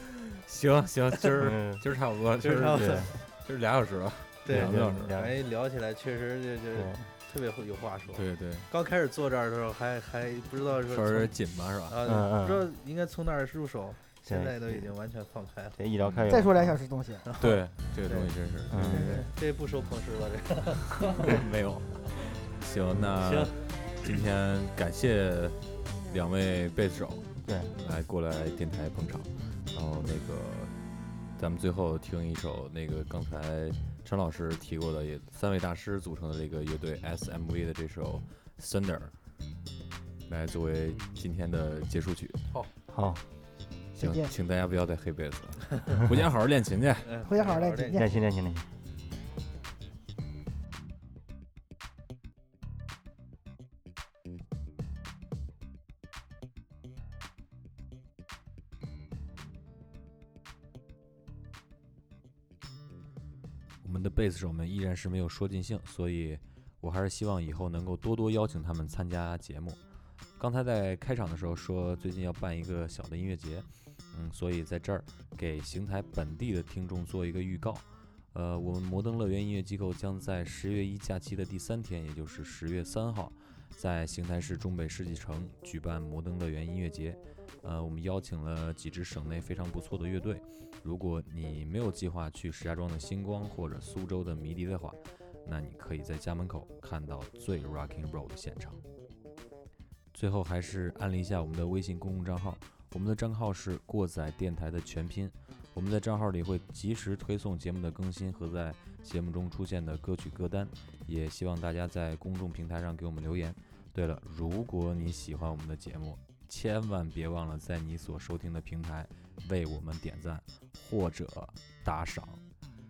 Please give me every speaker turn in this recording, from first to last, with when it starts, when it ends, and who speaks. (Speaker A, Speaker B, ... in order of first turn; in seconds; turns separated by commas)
Speaker A: 0.4-5.1, Speaker B: 1.4-1.8, Speaker C: 2.4-3.1, Speaker B: 2.7-3.1, Speaker C: 4.4-11.3, Speaker B: 4.5-5.4, Speaker B: 6.7-7.0, Speaker A: 8.1-8.7, Speaker A: 10.9-12.0, Speaker C: 11.9-15.8, Speaker B: 12.0-12.7, Speaker B: 14.3-14.9, Speaker B: 15.8-16.5, Speaker A: 16.0-16.3, Speaker D: 16.3-17.4, Speaker A: 17.4-19.3, Speaker B: 18.7-19.2, Speaker C: 18.9-21.3, Speaker D: 18.9-19.3, Speaker A: 21.1-30.7, Speaker C: 23.2-24.1, Speaker B: 27.4-27.7, Speaker A: 31.4-39.1, Speaker A: 40.3-42.4, Speaker B: 42.9-43.2, Speaker D: 44.0-44.3, Speaker A: 44.0-47.1, Speaker C: 47.0-48.1, Speaker D: 47.2-48.1, Speaker B: 47.9-48.7, Speaker A: 63.8-69.8, Speaker A: 70.4-98.8, Speaker A: 100.1-122.4